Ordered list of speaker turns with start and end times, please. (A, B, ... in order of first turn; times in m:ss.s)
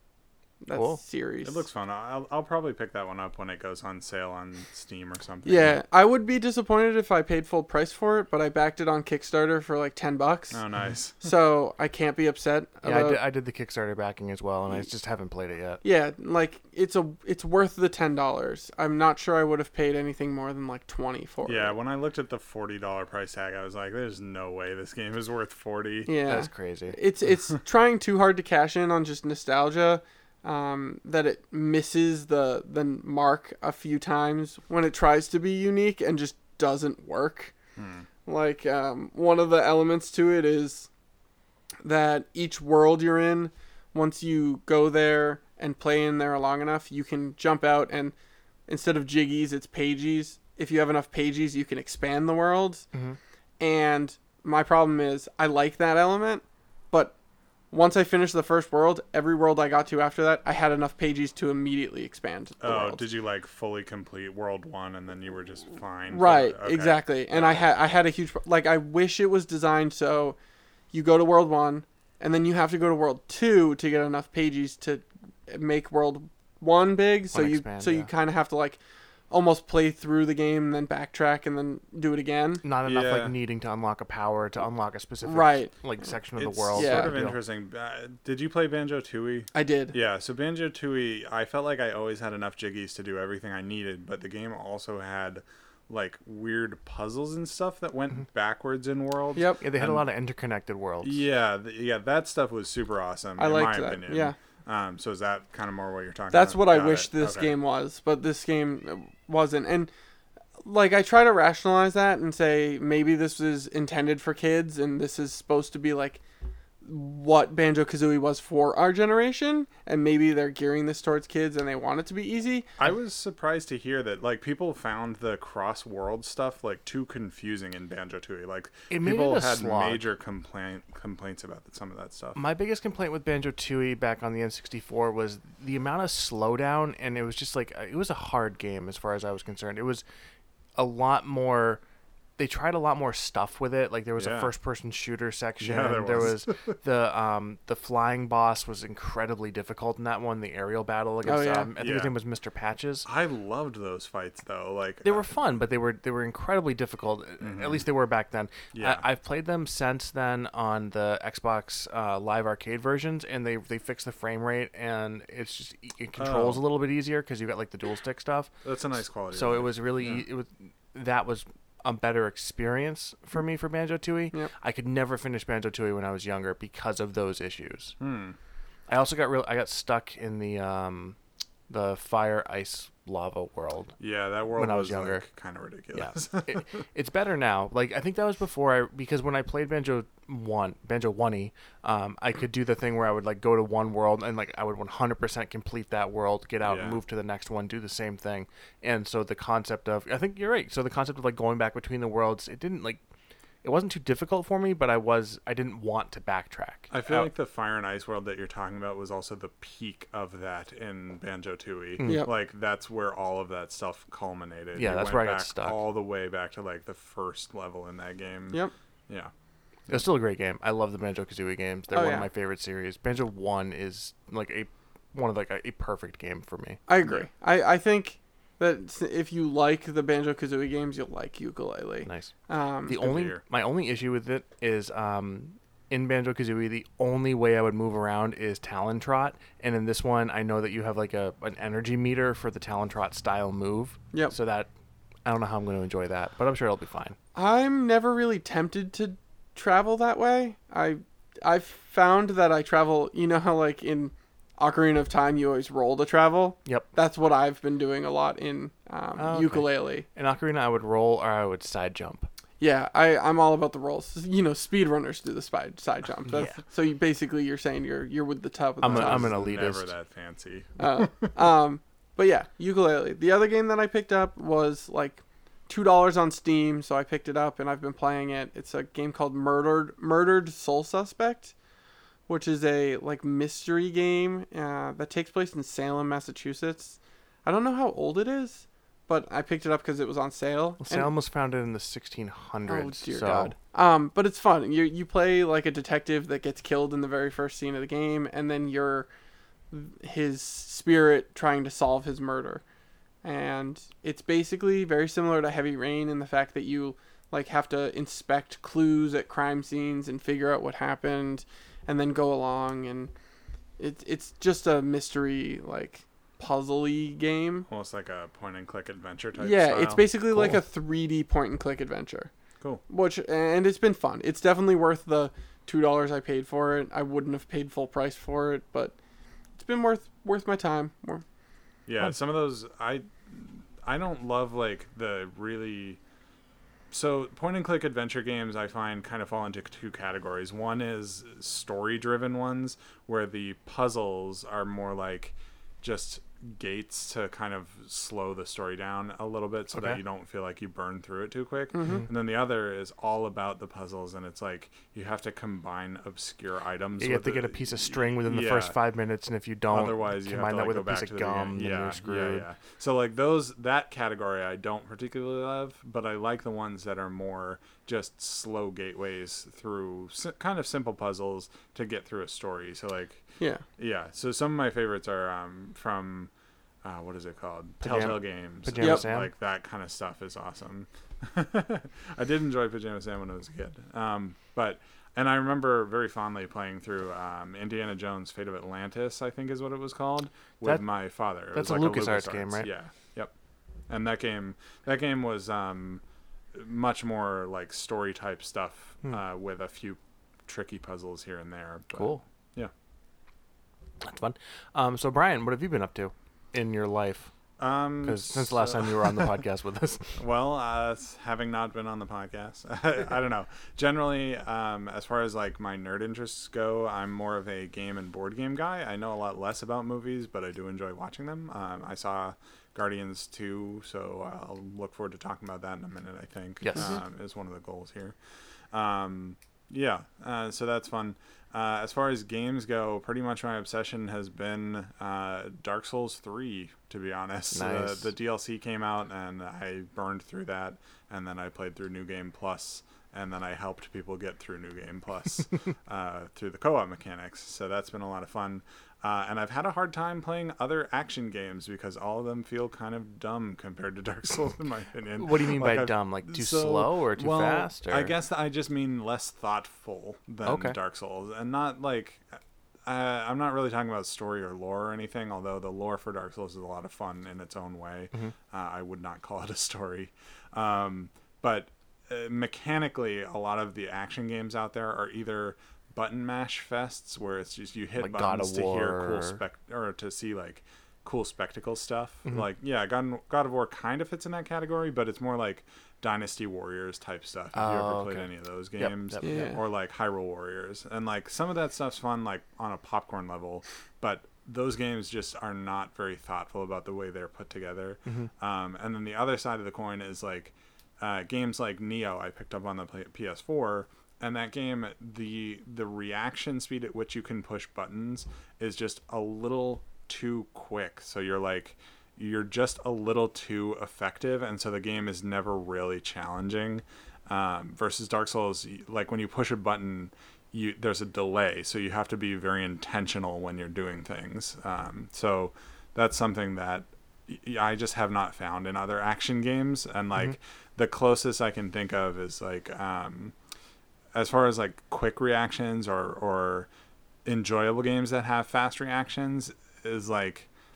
0:00.6-0:01.7 A
0:00.7-0:01.0 B
0:01.4-0:05.8 C
0:05.5-0:10.6 A
0:10.5-0:11.3 C
0:11.2-0:13.2 A
0:12.8-0:15.8 B
0:15.8-0:21.8 A
0:21.4-0:26.1 C
0:26.1-0:37.5 A
0:26.2-0:27.0 B
0:37.8-0:38.1 C
0:38.3-0:40.9 A
0:41.8-0:48.1 A
0:48.7-0:52.9 A
0:53.6-0:57.2 A
0:57.7-1:03.0 A
1:02.6-1:07.7 C
1:06.1-1:10.4 A
1:10.9-1:18.8 A
1:17.3-1:18.1 B
1:19.3-1:22.6 A
1:22.6-1:27.4 B
1:22.8-1:23.3 C
1:25.2-1:25.7 A
1:26.4-1:40.0 C
1:26.8-1:27.1 A
1:29.5-1:30.0 A
1:39.4-1:39.6 A
1:39.6-1:41.2 B
1:41.0-1:47.6 C
1:43.4-1:44.4 A
1:46.3-1:49.9 A
1:50.6-1:56.2 A
1:56.8-2:02.7 A
2:02.8-2:12.4 C
2:08.9-2:10.0 B
2:12.4-2:20.0 B
2:20.8-2:21.8 B
2:22.4-2:33.1 B
2:24.2-2:24.5 C
2:25.6-2:26.8 C
2:31.2-2:31.7 A
2:31.8-2:32.1 C
2:33.0-2:35.2 C
2:35.0-2:48.5 B
2:37.4-2:37.9 C
2:38.7-2:39.0 C
2:46.2-2:46.6 C
2:48.6-2:50.2 C
2:49.3-2:58.0 B
2:58.0-2:58.4 C
2:58.9-3:01.2 B
3:01.7-3:04.0 B
3:04.0-3:06.7 C
3:04.6-3:05.2 B
3:05.9-3:23.0 B
3:16.6-3:17.0 C
3:23.6-3:27.3 B
3:26.9-3:39.3 C
3:32.0-3:32.3 B
3:32.0-3:32.3 A
3:34.8-3:35.8 B
3:39.9-3:46.8 B
3:41.9-3:42.3 A
3:46.9-3:53.0 A
3:52.0-3:52.3 B
3:52.9-4:04.7 B
3:52.9-3:53.4 C
4:05.2-4:07.2 B
4:07.4-4:20.1 A
4:19.2-4:22.3 B
4:22.6-4:29.4 A
4:28.8-4:29.9 B
4:28.8-4:31.4 C
4:30.8-4:41.5 A
4:42.3-4:51.1 A
4:50.8-4:53.6 B
4:52.7-4:59.1 A
4:59.7-5:02.6 A
5:03.2-5:13.1 A
5:13.8-5:17.7 A
5:17.7-5:20.0 C
5:19.4-5:22.3 A
5:22.9-5:29.0 A
5:29.6-5:31.2 A
5:31.9-5:36.0 C
5:36.9-5:58.8 C
5:49.7-5:50.0 B
5:51.7-5:52.0 A
5:57.0-6:02.5 B
5:59.7-6:16.3 C
6:16.8-6:33.3 C
6:17.8-6:19.3 B
6:31.5-6:32.7 B
6:33.9-6:36.0 C
6:36.5-6:42.7 C
6:41.9-6:42.2 B
6:44.0-6:47.3 B
6:47.6-6:49.3 C
6:48.0-6:50.1 B
6:50.2-7:08.2 C
7:06.6-7:07.0 B
7:08.7-7:42.2 C
7:17.5-7:18.1 B
7:35.2-7:38.1 B
7:40.4-7:40.8 B
7:42.9-8:53.3 C
7:58.0-7:59.4 B
8:07.5-8:08.3 B
8:08.8-8:09.6 B
8:09.2-8:09.6 A
8:54.1-8:56.7 C
8:57.2-9:00.5 C